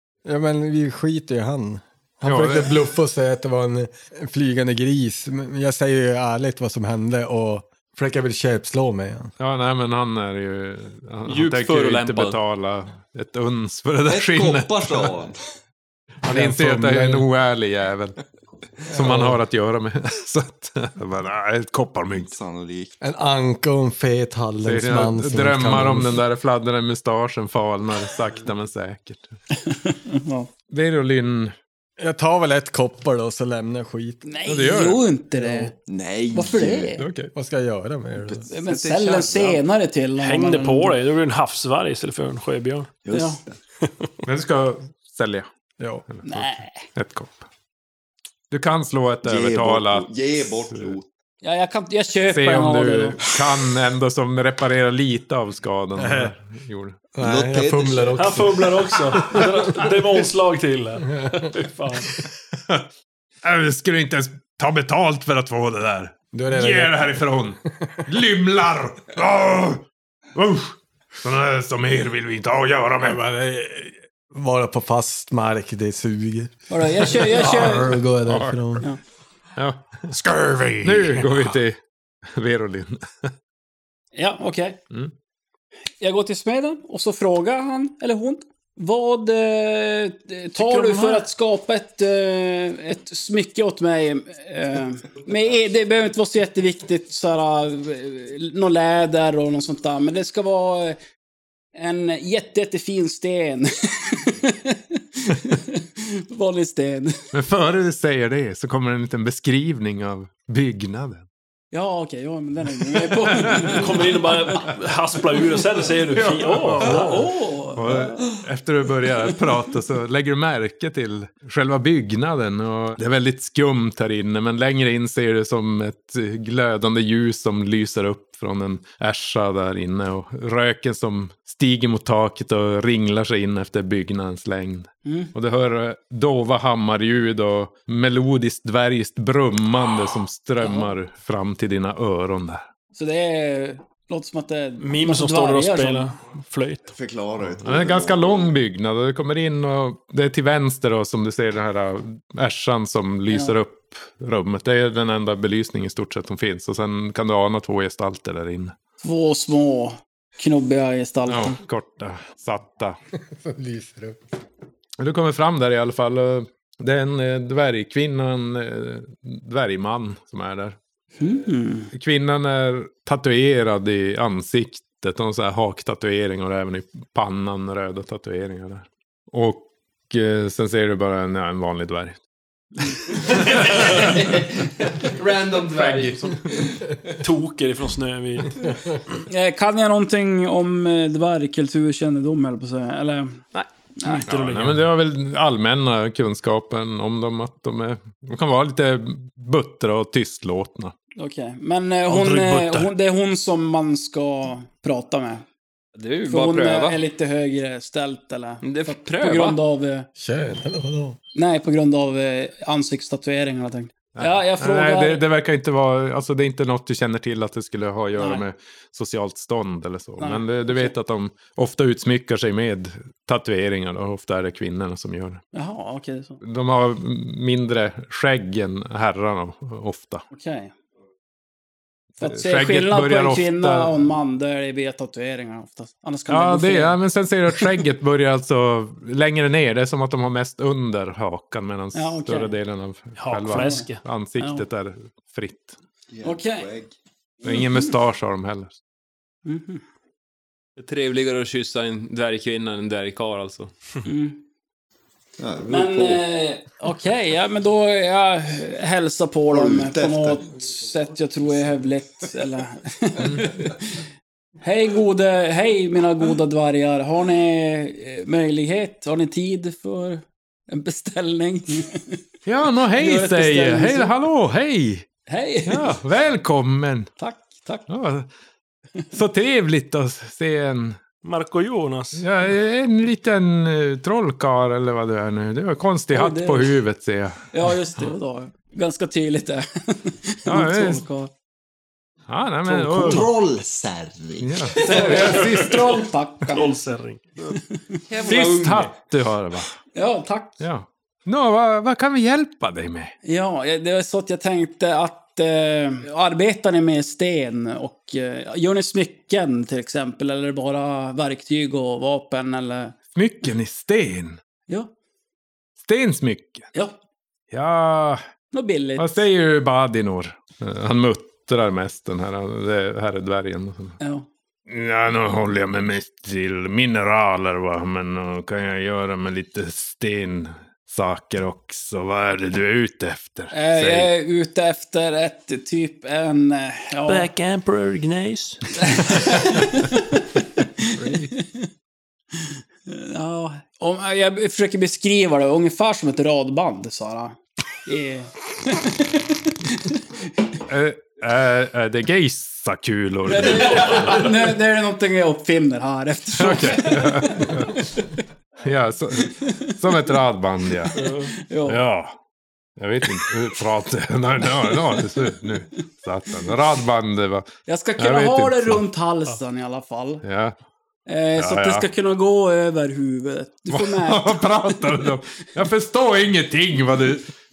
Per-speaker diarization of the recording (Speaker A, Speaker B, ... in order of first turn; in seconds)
Speaker A: 0.3-9.3, 16.2-17.3, 18.9-19.4, 23.0-26.2, 32.0-34.2, 35.3-35.7, 37.2-38.5, 45.8-46.0, 56.0-56.3, 57.1-59.0, 66.3-67.2, 67.7-68.0, 74.3-78.9, 163.2-164.2, 210.2-211.2
Speaker B: 2.2-2.7, 9.4-15.1, 16.2-18.2, 18.9-22.3, 24.6-29.3, 30.7-31.6, 34.5-35.0, 37.0-37.3, 44.2-45.5, 46.1-47.5, 48.5-51.0, 52.3-57.0, 63.4-69.8, 70.3-73.9, 78.3-78.8, 79.6-80.1, 80.8-81.8, 82.3-83.3, 107.3-111.3, 113.3-113.7, 116.1-142.7, 147.6-158.7, 161.3-163.0, 165.0-170.8, 171.9-182.2, 183.7-184.1, 185.8-186.3, 194.3-200.9, 214.2-225.4, 226.4-230.2, 232.2-234.0, 236.3-245.8, 247.4-248.8, 272.5-275.1, 275.7-277.1, 277.9-278.3, 279.1-281.0, 282.2-287.4, 290.5-291.0, 292.3-293.4, 294.4-296.1, 298.2-299.8, 300.6-303.1, 313.1-314.4, 315.8-316.7, 317.5-318.2, 319.0-324.0, 324.7-334.1, 340.9-341.3, 350.7-354.5, 356.4-357.8, 358.6-361.0, 361.7-362.1, 362.8-368.8, 370.2-370.6, 371.4-371.9, 373.7-377.3
Speaker C: 11.3-12.4, 183.3-186.4, 206.0-207.0, 208.6-209.6, 250.8-253.7, 298.1-298.9
Speaker D: 14.1-15.4, 22.1-22.9, 35.9-37.0, 38.2-39.6, 43.0-43.6, 49.2-51.1, 57.2-58.6, 146.9-148.5, 246.1-246.9, 255.4-256.2, 259.5-260.4, 292.7-295.0
Speaker E: 29.6-30.5, 34.2-35.7, 36.3-37.0, 38.5-41.0, 43.1-43.4, 46.2-46.9, 51.4-53.2, 76.7-78.0, 84.2-84.8, 86.0-101.0, 101.8-107.2, 111.7-114.6, 116.8-118.3, 135.1-135.3, 140.6-140.9, 142.9-146.1, 159.0-161.6, 171.2-171.9, 189.3-193.5, 194.0-194.3, 201.2-205.4, 206.3-210.1, 211.3-215.2, 218.2-218.4, 220.2-220.9, 225.5-226.4, 230.3-230.7, 232.2-237.0, 241.9-242.5, 243.5-244.7, 246.2-246.7, 247.4-247.9, 249.5-249.8, 254.1-254.4, 255.7-264.0, 264.6-272.2, 273.0-274.1, 275.3-276.0, 277.2-277.9, 286.1-286.7, 287.5-291.3, 294.8-296.7, 297.5-298.0, 299.9-300.6, 303.2-312.9, 318.5-319.2, 324.0-324.3, 333.5-337.3, 338.9-341.7, 342.9-350.0, 353.3-357.8, 361.0-361.8, 367.7-370.2, 371.1-374.8
Speaker F: 40.2-42.9, 58.2-62.2, 90.6-91.3, 113.7-117.3, 144.8-146.9, 187.2-188.8, 194.0-194.9, 202.1-202.9, 243.2-244.0, 281.2-282.3, 295.0-295.5, 296.5-297.6, 337.1-339.3, 361.0-361.3